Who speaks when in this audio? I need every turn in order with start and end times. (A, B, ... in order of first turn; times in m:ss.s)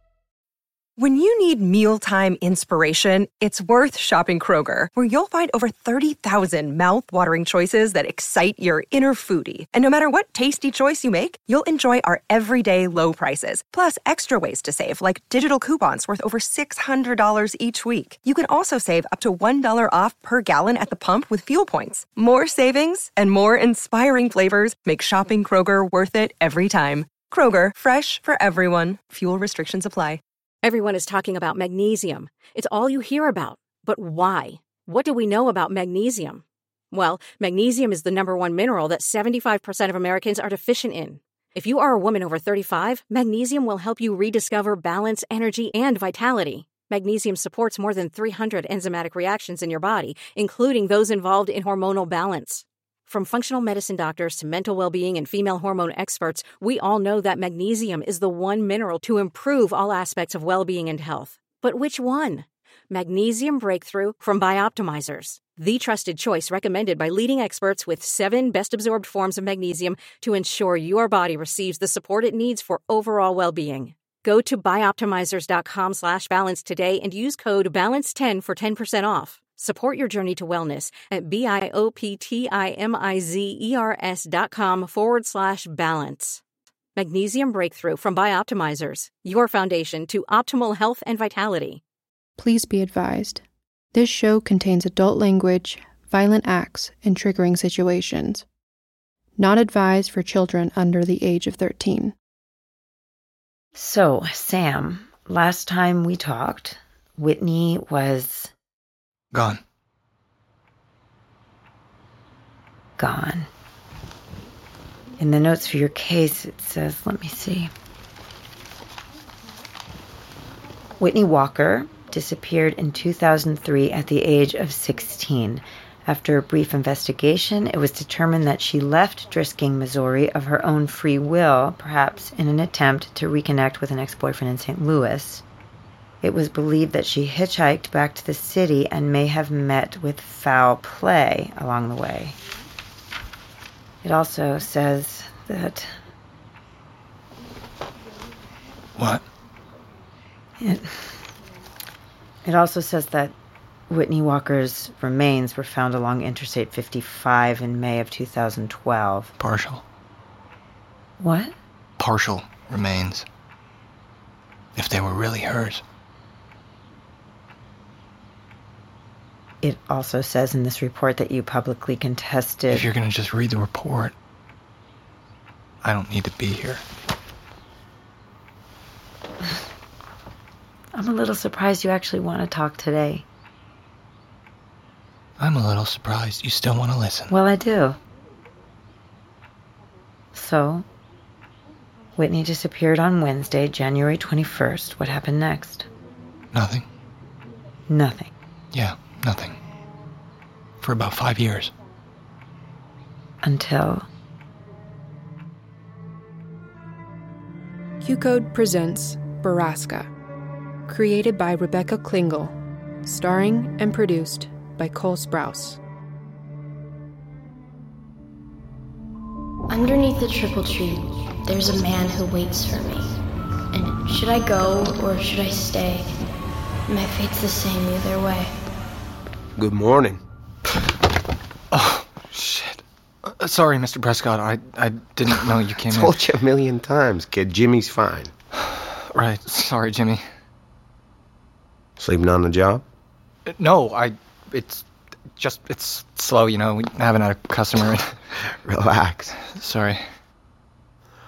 0:01.0-0:30.2 A
0:30.6-1:26.4 B
1:27.0-1:31.8 B
1:32.4-1:38.4 C
1:39.4-1:42.1 C
1:43.7-1:48.5 D
1:49.3-1:49.6 E
1:53.0-1:53.5 D
1:55.2-1:57.7 D
2:01.0-2:15.4 D
2:16.2-2:22.4 D
2:24.0-2:25.9 D
2:29.0-2:29.2 E
2:30.6-2:31.1 D
2:32.4-2:33.3 D
2:33.9-2:39.3 D
2:39.4-2:39.8 E
2:41.2-2:41.5 D
2:42.0-2:43.2 E
2:44.8-2:45.8 E
2:49.6-2:52.9 D
2:52.7-2:54.1 E
2:55.8-2:56.8 E
3:00.9-3:03.2 D
3:05.4-3:07.3 E
3:07.3-3:08.0 D
3:10.3-3:10.8 D
3:12.2-3:15.9 D
3:16.5-3:16.8 E
3:17.9-3:18.3 D
3:18.7-3:19.6 E
3:20.8-3:21.7 E
3:23.4-3:24.0 D
3:28.0-3:30.1 C
3:30.9-3:35.8 C
3:39.7-3:43.2 F
3:43.7-3:46.2 F
3:46.9-3:48.5 F
3:49.6-3:50.2 G
3:51.7-3:56.2 E
3:55.8-3:58.3 G
3:58.7-4:00.2 E
4:02.0-4:02.8 G
4:03.5-4:04.8 E
4:05.4-4:08.1 E
4:08.6-4:09.3 G
4:09.4-4:10.0 E